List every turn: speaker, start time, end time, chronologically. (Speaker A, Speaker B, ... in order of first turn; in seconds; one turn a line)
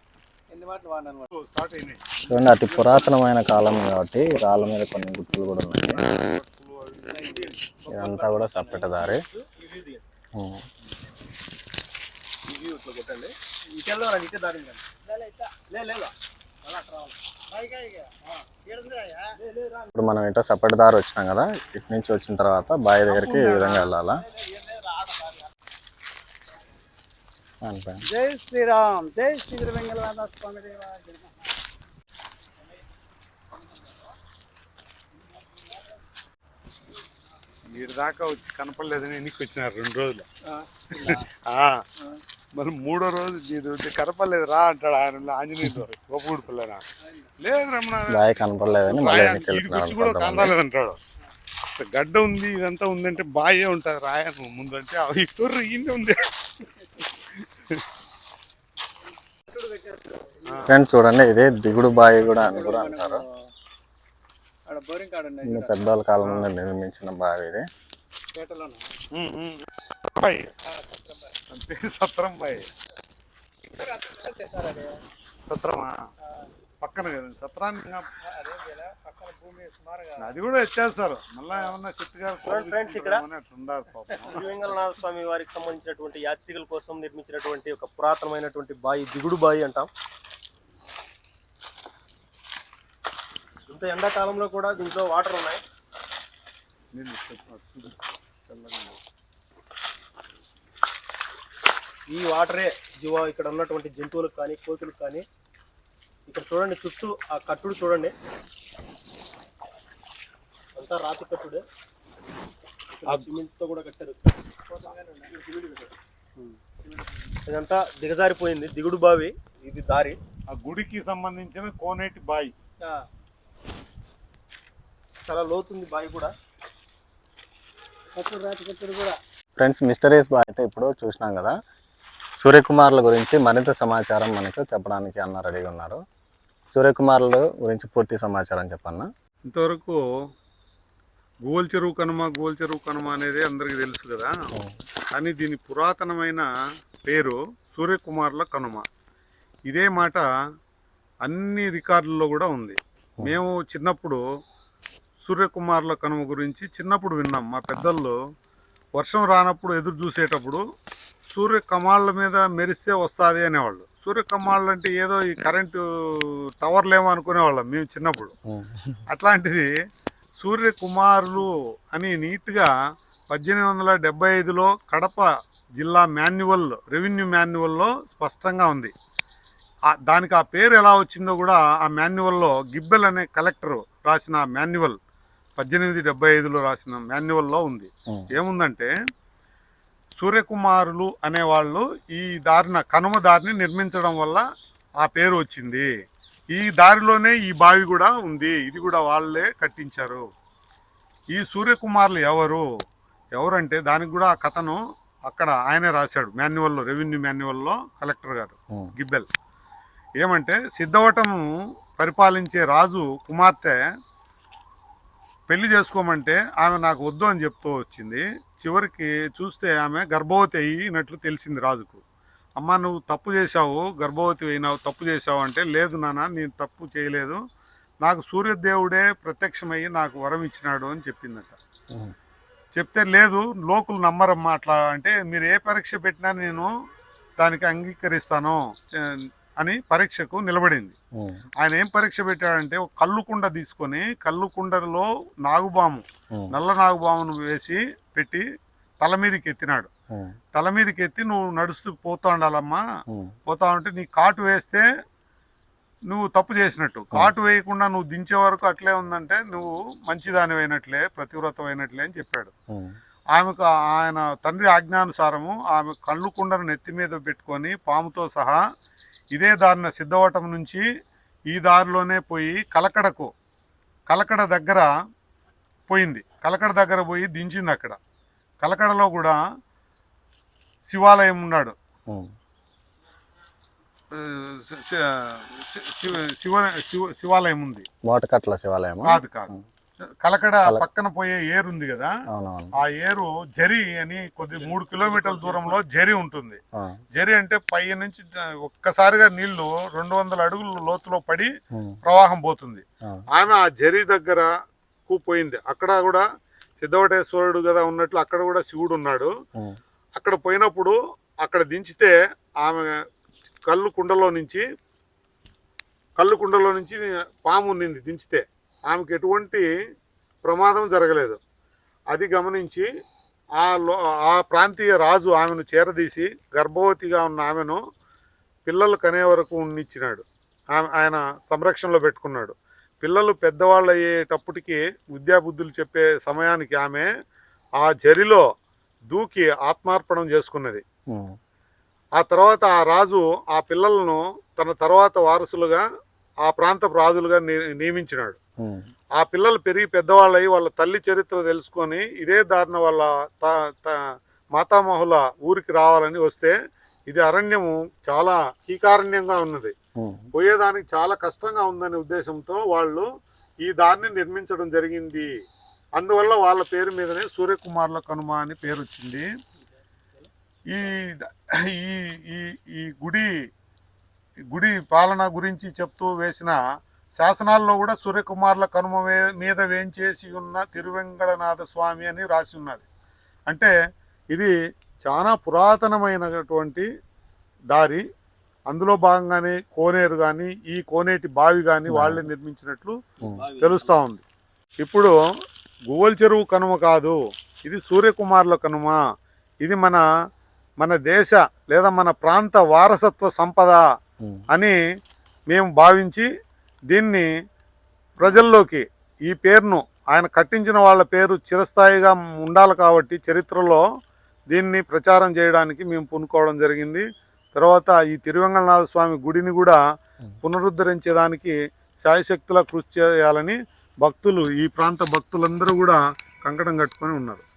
Speaker A: 0.5-1.3
Speaker B: 1.3-2.1
Speaker C: 2.3-6.0
Speaker B: 5.8-7.4
Speaker D: 7.1-10.0
Speaker C: 7.9-9.2
Speaker C: 10.3-10.6
Speaker D: 12.5-16.1
Speaker A: 15.1-15.4
Speaker D: 16.6-17.1
Speaker A: 17.5-19.3
Speaker D: 19.4-19.9
Speaker C: 19.9-24.2
Speaker A: 23.3-23.8
Speaker D: 24.4-25.3
Speaker C: 27.6-28.0
Speaker A: 28.1-31.4
Speaker B: 37.7-40.3
Speaker A: 40.6-41.2
Speaker B: 40.9-41.8
Speaker B: 42.6-46.8
Speaker B: 47.4-51.0
Speaker C: 48.1-50.5
Speaker B: 51.8-56.3
Speaker B: 57.4-57.8
Speaker A: 59.5-60.8
Speaker C: 60.7-63.2
Speaker A: 61.9-63.4
Speaker A: 64.7-65.8
Speaker C: 65.4-67.7
Speaker B: 66.2-66.5
Speaker A: 68.3-68.8
Speaker B: 69.1-70.5
Speaker A: 70.7-71.3
Speaker B: 71.5-72.7
Speaker A: 73.8-75.0
Speaker B: 75.5-76.0
Speaker B: 76.8-78.1
Speaker A: 78.2-80.3
Speaker B: 80.2-84.6
Speaker D: 82.4-83.2
Speaker D: 84.3-89.9
Speaker D: 93.7-95.6
Speaker B: 96.9-99.0
Speaker D: 102.1-105.2
Speaker D: 106.3-108.1
Speaker D: 110.8-111.6
Speaker D: 113.0-115.9
Speaker A: 114.7-115.4
Speaker D: 117.5-120.2
Speaker B: 120.5-122.5
Speaker D: 125.3-126.3
Speaker A: 128.2-129.2
Speaker C: 129.6-131.5
Speaker C: 132.4-136.0
Speaker C: 136.7-139.1
Speaker B: 139.5-140.0
Speaker B: 141.4-144.3
Speaker B: 145.1-146.5
Speaker B: 147.1-148.8
Speaker B: 149.7-150.2
Speaker B: 151.2-154.2
Speaker B: 155.2-158.2
Speaker B: 159.0-160.6
Speaker B: 161.3-168.3
Speaker C: 168.5-169.0
Speaker B: 169.1-169.7
Speaker B: 170.4-172.7
Speaker B: 173.3-178.9
Speaker B: 180.0-185.0
Speaker B: 185.6-188.9
Speaker B: 190.2-194.4
Speaker B: 195.0-195.9
Speaker B: 196.5-200.2
Speaker B: 201.3-202.7
Speaker B: 203.4-209.3
Speaker B: 210.2-213.8
Speaker B: 215.5-222.0
Speaker B: 222.6-227.4
Speaker B: 228.0-231.6
Speaker B: 232.7-236.7
Speaker B: 237.4-241.0
Speaker C: 241.2-241.4
Speaker B: 241.6-248.4
Speaker B: 249.0-249.9
Speaker C: 250.1-250.4
Speaker B: 250.5-252.8
Speaker C: 253.1-253.3
Speaker B: 253.5-254.8
Speaker B: 256.1-262.5
Speaker B: 263.3-268.6
Speaker B: 269.3-270.8
Speaker B: 271.5-273.3
Speaker B: 274.1-274.9
Speaker B: 275.9-278.0
Speaker B: 278.6-279.4
Speaker B: 280.9-281.8
Speaker B: 284.1-287.9
Speaker C: 288.0-289.6
Speaker B: 289.1-289.5
Speaker B: 290.2-292.1
Speaker C: 292.3-292.7
Speaker B: 292.8-296.6
Speaker D: 294.5-295.9
Speaker B: 297.1-301.5
Speaker C: 301.7-302.0
Speaker B: 302.0-304.5
Speaker B: 305.1-306.2
Speaker B: 306.8-309.3
Speaker B: 310.2-312.9
Speaker B: 313.7-314.6
Speaker B: 316.2-319.7
Speaker B: 320.4-321.4
Speaker B: 322.1-322.9
Speaker B: 323.6-327.8
Speaker B: 328.7-337.1
Speaker B: 337.8-338.4
Speaker B: 339.1-340.8
Speaker C: 341.1-341.4
Speaker B: 342.2-345.8
Speaker B: 346.4-348.4
Speaker C: 348.6-348.9
Speaker B: 349.2-356.6
Speaker B: 357.1-359.7
Speaker C: 360.0-360.3
Speaker B: 360.3-363.1
Speaker B: 363.6-365.3
Speaker B: 366.0-369.3
Speaker B: 370.7-373.5
Speaker B: 374.5-376.6
Speaker B: 377.2-382.9
Speaker B: 384.3-386.9
Speaker B: 387.7-388.0
Speaker B: 388.7-392.9
Speaker C: 391.9-392.3
Speaker D: 393.2-394.0
Speaker B: 393.6-394.2
Speaker B: 394.8-395.1
Speaker B: 395.9-399.0
Speaker B: 399.6-400.0
Speaker B: 400.8-403.8
Speaker B: 405.5-406.3
Speaker B: 406.9-407.3
Speaker B: 408.2-413.8
Speaker B: 414.5-417.0
Speaker B: 417.6-419.8
Speaker B: 420.4-427.4